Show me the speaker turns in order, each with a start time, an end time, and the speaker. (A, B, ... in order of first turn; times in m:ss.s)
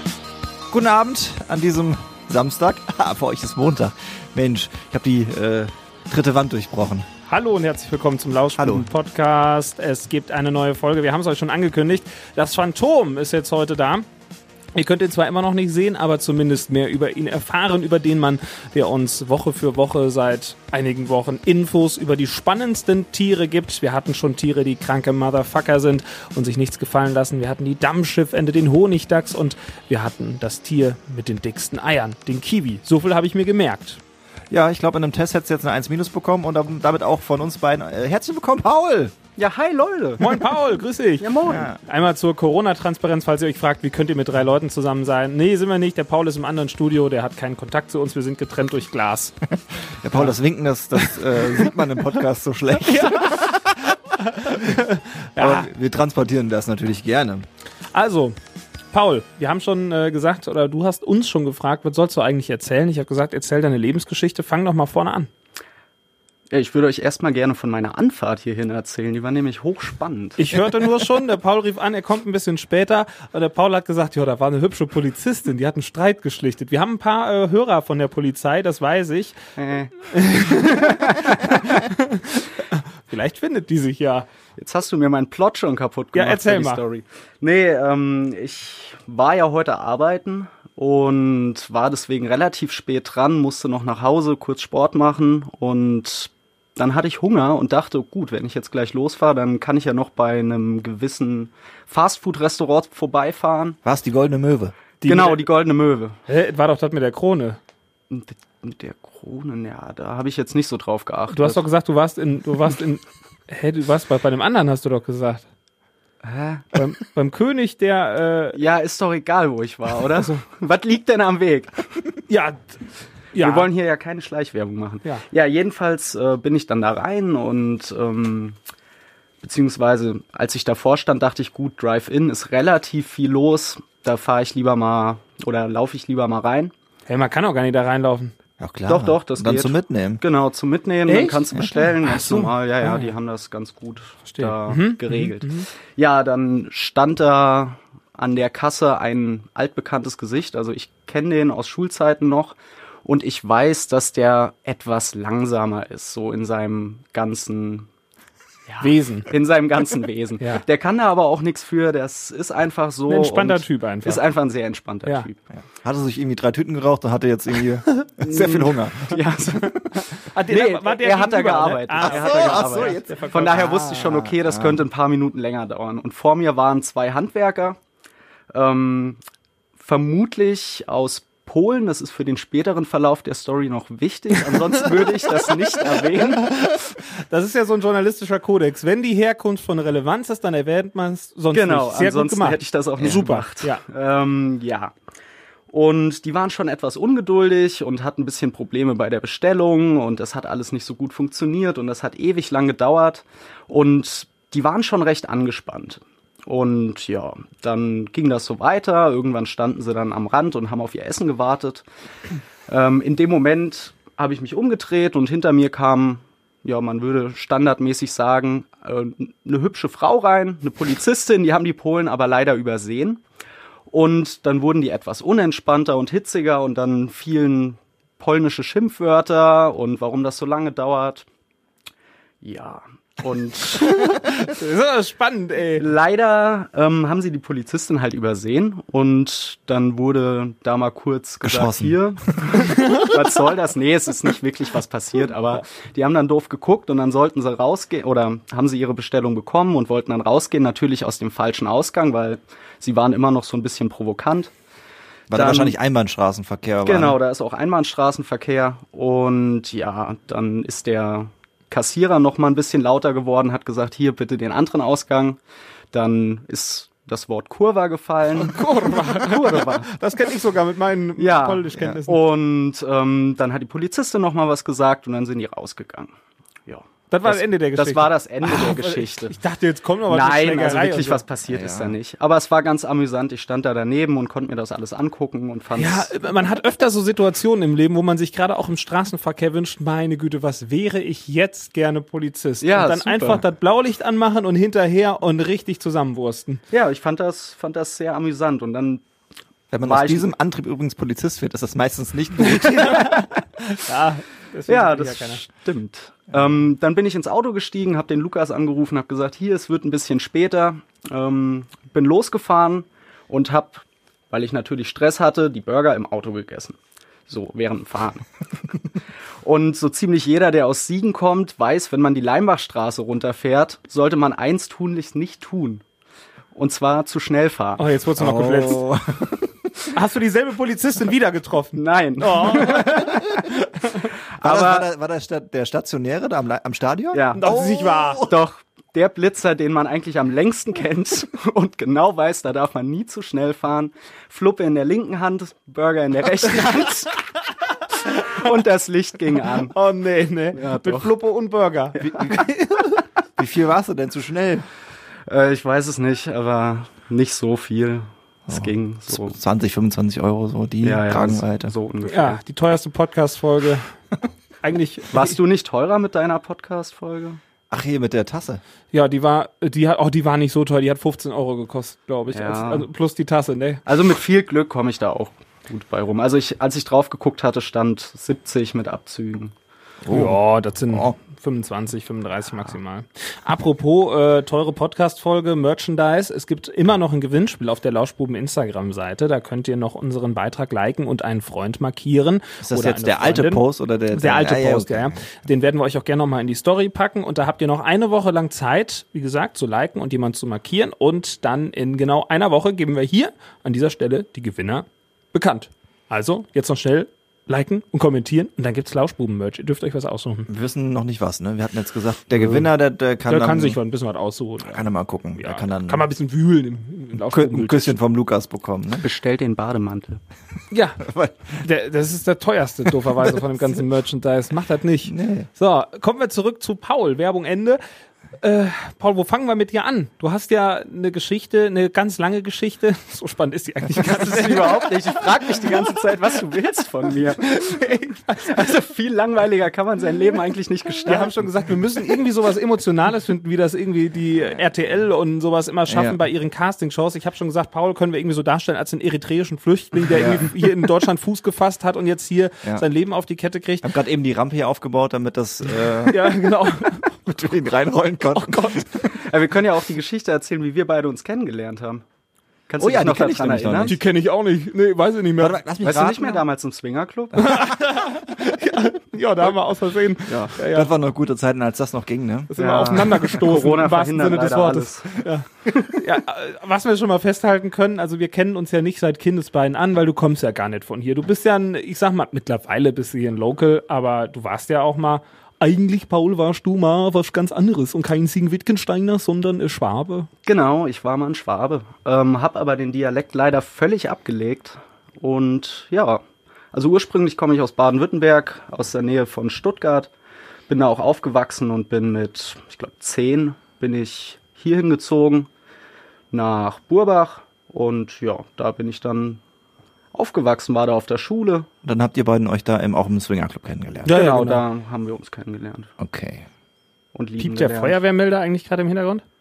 0:00.7-0:07.1 A
0:07.3-0:14.1 B
0:08.6-0:08.9 A
0:14.7-0:34.0 B
0:34.5-0:39.2 A
0:39.4-0:40.4 C
0:40.2-0:49.4 B
0:41.2-0:41.7 C
0:41.5-0:41.8 A
0:49.8-0:54.8 A
0:51.0-0:51.7 B
0:52.8-0:53.6 B
0:54.2-0:55.7 B
0:55.4-0:57.5 A
0:57.9-0:58.4 B
0:58.9-1:05.3 B
1:06.5-1:10.4 C
1:10.4-1:19.4 B
1:19.6-1:21.6 C
1:20.0-1:24.3 B
1:24.6-1:43.8 C
1:26.2-1:26.8 B
1:43.8-1:44.8 A
1:45.0-1:45.4 B
1:45.1-1:46.2 C
1:46.3-1:47.6 B
1:48.1-1:51.6 C
1:51.3-1:55.5 B
1:56.2-1:56.8 C
1:56.7-1:58.6 B
1:58.6-2:01.9 C
2:02.3-2:02.7 B
2:03.3-2:03.7 B
2:03.4-2:08.6 C
2:09.4-2:16.7 C
2:17.1-2:18.4 B
2:18.6-2:20.2 A
2:18.9-2:37.9 C
2:21.1-2:23.1 B
2:24.3-2:25.7 B
2:38.7-2:45.5 C
2:38.8-2:39.3 B
2:43.1-2:44.3 B
2:45.5-2:49.2 A
2:48.2-2:57.8 C
2:50.1-2:53.9 B
2:52.0-2:54.8 A
2:58.5-2:59.2 C
2:59.8-3:06.6 C
3:06.5-3:13.8 B
3:11.5-3:14.9 C
3:15.7-3:31.8 C
3:32.7-3:43.2 C
3:43.9-3:51.3 C
3:52.4-3:54.0 C
3:53.9-3:55.9 B
3:55.8-4:14.5 C
4:01.4-4:01.9 A
4:15.3-4:17.2 A
4:15.3-4:15.8 C
4:16.8-4:25.4 C
4:25.9-4:29.9 C
4:28.4-4:32.2 B
4:31.2-4:36.1 C
4:36.7-4:39.4 C
4:37.1-4:41.2 B
4:40.1-4:46.1 C
4:41.5-4:42.0 A
4:45.8-4:56.6 B
4:52.6-4:53.4 C
4:56.7-4:59.0 C
4:59.7-5:03.3 A
4:59.8-5:00.3 C
5:02.6-5:05.4 B
5:04.7-5:18.3 C
5:19.4-5:25.8 C
5:26.6-5:27.8 C
5:27.8-5:28.9 B
5:28.2-5:29.7 A
5:29.9-5:33.4 B
5:31.8-5:33.0 C
5:34.4-5:34.9 C
5:34.4-5:38.4 A
5:37.1-5:37.4 C
5:37.4-5:38.2 B
5:38.3-5:47.2 C
5:48.3-5:49.7 C
5:49.5-5:53.0 B
5:50.6-5:51.1 C
5:52.1-5:52.5 A
5:53.4-5:54.7 A
5:55.3-5:59.4 C
5:58.5-6:01.7 A
6:00.8-6:02.4 C
6:02.1-6:04.0 B
6:04.6-6:05.4 B
6:05.1-6:07.4 C
6:07.7-6:08.6 A
6:08.9-6:13.8 B
6:12.3-6:12.9 C
6:13.9-6:19.5 C
6:20.0-6:21.1 A
6:20.1-6:50.5 B
6:32.6-6:35.2 A
6:50.5-6:53.8 A
6:53.3-6:58.0 B
6:54.6-6:56.1 A
6:57.2-6:59.0 A
6:59.0-7:00.2 C
7:00.7-7:07.8 B
7:01.0-7:01.6 A
7:05.1-7:05.5 A
7:08.4-7:15.9 B
7:14.0-7:17.8 C
7:17.2-7:18.7 B
7:18.4-7:21.4 C
7:21.0-7:33.9 B
7:25.9-7:26.2 A
7:30.0-7:30.6 A
7:33.8-7:39.2 A
7:36.1-7:37.2 B
7:38.3-7:38.9 B
7:39.2-7:42.0 C
7:42.7-7:44.0 C
7:42.8-7:44.0 A
7:43.9-7:46.0 B
7:45.4-7:46.4 A
7:45.8-7:47.5 C
7:47.4-7:50.9 B
7:50.3-7:53.2 A
7:52.5-8:10.3 B
7:52.6-7:55.2 C
8:10.5-8:16.2 C
8:16.7-8:20.1 C
8:20.7-8:25.5 C
8:26.3-8:29.4 C
8:30.1-8:31.7 C
8:31.8-8:34.2 A
8:34.1-8:34.6 B
8:34.1-8:35.9 C
8:36.0-8:36.5 A
8:37.2-8:38.0 C
8:37.4-8:39.2 B